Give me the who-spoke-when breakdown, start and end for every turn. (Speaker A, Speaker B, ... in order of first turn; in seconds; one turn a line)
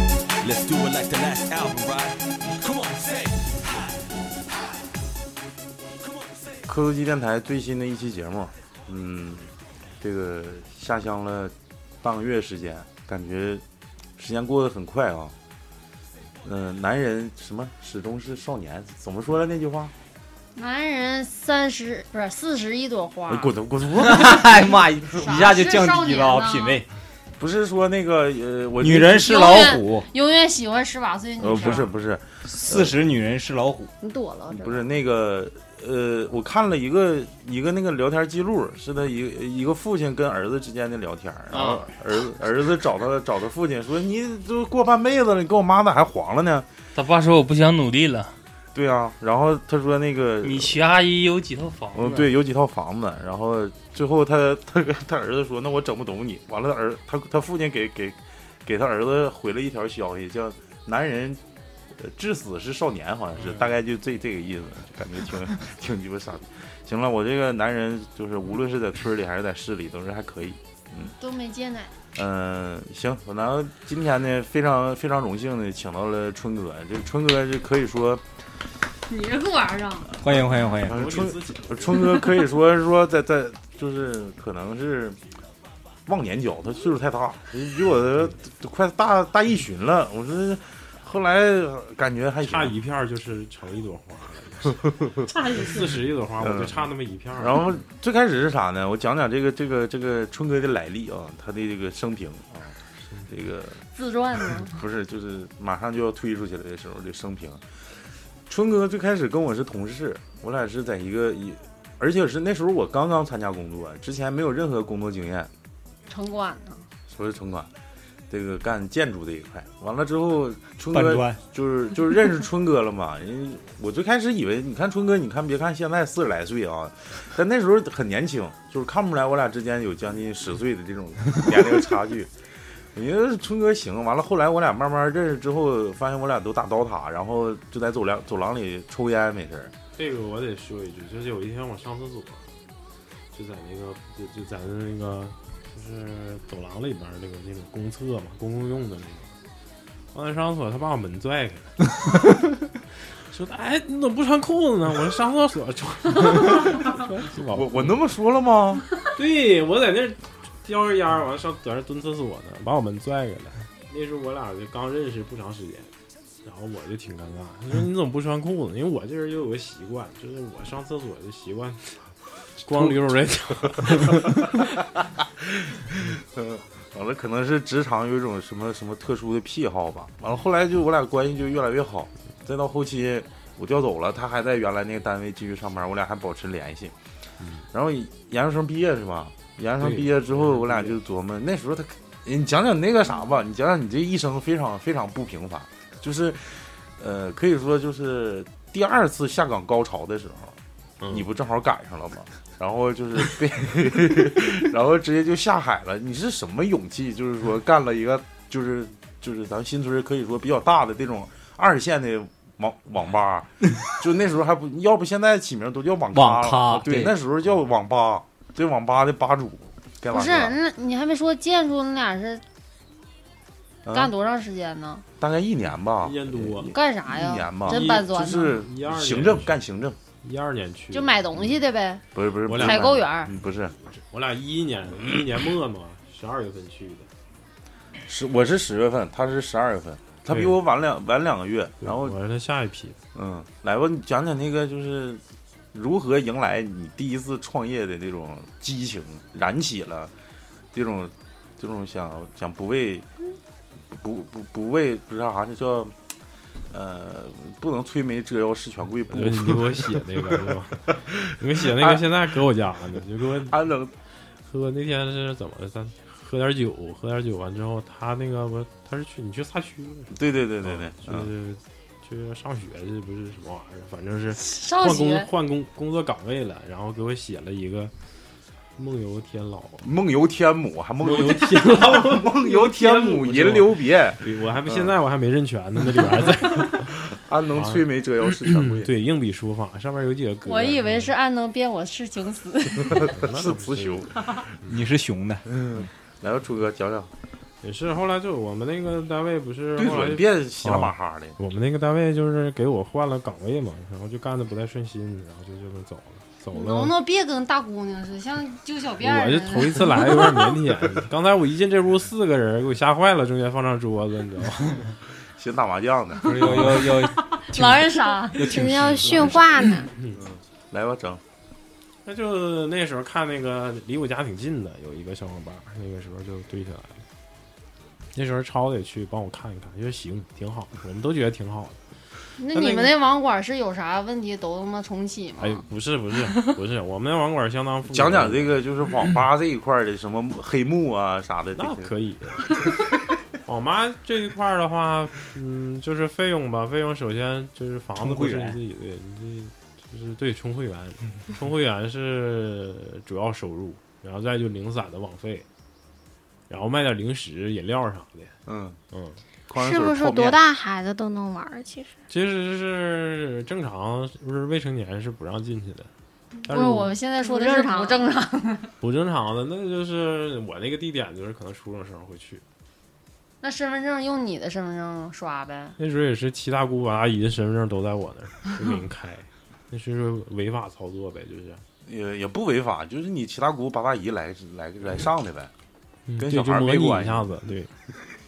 Speaker A: 0.4-3.9
Speaker A: 6.0-6.6
Speaker B: 6.7-13.6
Speaker B: 14.2-15.3
Speaker B: 16.4-19.9
Speaker C: 20.6-23.5
Speaker B: 23.3-24.6
Speaker D: 24.0-26.9
Speaker C: 25.1-26.8
Speaker B: 27.4-29.4
Speaker D: 28.8-30.1
Speaker C: 29.2-31.9
Speaker B: 31.4-33.0
Speaker D: 32.5-33.9
Speaker C: 34.0-34.9
Speaker B: 34.5-46.7
Speaker E: 41.5-41.9
Speaker E: 46.9-48.3
Speaker B: 48.7-50.8
Speaker E: 50.4-52.3
Speaker B: 51.9-71.1
Speaker C: 71.2-71.9
Speaker B: 72.1-78.2
Speaker C: 79.0-80.1
Speaker D: 80.2-81.0
Speaker F: 80.6-82.3
Speaker B: 80.8-85.2
Speaker B: 86.0-92.8
Speaker F: 92.4-95.0
Speaker C: 95.2-95.9
Speaker F: 95.5-97.6
Speaker B: 96.4-96.9
Speaker B: 97.4-102.8
Speaker B: 103.3-103.8
Speaker C: 103.9-104.8
Speaker B: 104.6-107.7
Speaker B: 108.5-115.5
Speaker C: 116.1-116.9
Speaker B: 117.1-117.7
Speaker B: 118.3-132.3
Speaker D: 120.9-121.4
Speaker B: 132.9-139.7
Speaker F: 139.9-142.5
Speaker F: 143.3-149.4
Speaker F: 150.1-151.8
Speaker F: 153.2-157.9
Speaker B: 157.5-158.8
Speaker F: 159.1-165.9
Speaker F: 166.4-174.6
Speaker B: 174.3-186.9
Speaker B: 187.7-200.6
Speaker F: 189.8-190.9
Speaker F: 201.0-201.3
Speaker B: 201.1-220.6
Speaker D: 216.1-217.1
Speaker C: 220.1-222.4
Speaker B: 223.8-224.1
Speaker C: 223.9-225.0
Speaker B: 225.2-230.0
Speaker F: 226.0-226.7
Speaker C: 226.7-228.5
Speaker F: 227.7-229.6
Speaker F: 230.2-231.2
Speaker C: 230.9-233.3
Speaker B: 232.1-233.7
Speaker F: 232.4-233.1
Speaker F: 233.7-237.1
Speaker B: 238.1-242.2
Speaker F: 240.3-240.6
Speaker F: 241.8-243.0
Speaker B: 243.1-245.2
Speaker B: 245.7-250.1
Speaker B: 250.7-253.1
Speaker B: 253.9-255.9
Speaker B: 256.7-260.4
Speaker F: 259.1-263.7
Speaker B: 261.6-262.1
Speaker B: 263.4-263.9
Speaker F: 264.4-277.9
Speaker B: 270.1-271.3
Speaker C: 274.4-275.3
Speaker F: 278.8-279.9
Speaker B: 279.8-284.9
Speaker F: 281.0-286.9
Speaker B: 287.1-288.9
Speaker F: 287.5-291.1
Speaker C: 290.4-293.1
Speaker F: 293.1-294.1
Speaker B: 293.1-294.4
Speaker D: 294.6-295.5
Speaker B: 295.5-297.1
Speaker F: 297.6-306.9
Speaker B: 299.8-301.4
Speaker C: 306.5-310.4
Speaker F: 309.0-314.9
Speaker B: 315.3-316.7
Speaker D: 316.2-319.7
Speaker C: 317.2-318.5
Speaker G: 318.4-319.9
Speaker B: 320.1-321.2
Speaker F: 322.0-327.0
Speaker F: 328.1-331.8
Speaker C: 332.4-335.6
Speaker F: 335.4-338.6
Speaker B: 337.9-341.9
Speaker F: 341.6-342.6
Speaker F: 343.4-355.4
Speaker D: 348.0-348.6
Speaker F: 356.5-358.3
Speaker B: 358.4-358.8
Speaker F: 358.9-359.2
Speaker B: 359.5-360.4
Speaker G: 359.5-361.9
Speaker F: 362.1-365.9
Speaker F: 366.4-366.9
Speaker C: 366.5-368.7
Speaker G: 367.2-368.0
Speaker F: 368.8-372.4
Speaker C: 373.4-375.8
Speaker F: 375.8-381.6
Speaker B: 381.8-385.5
Speaker F: 386.1-387.7
Speaker B: 386.2-387.4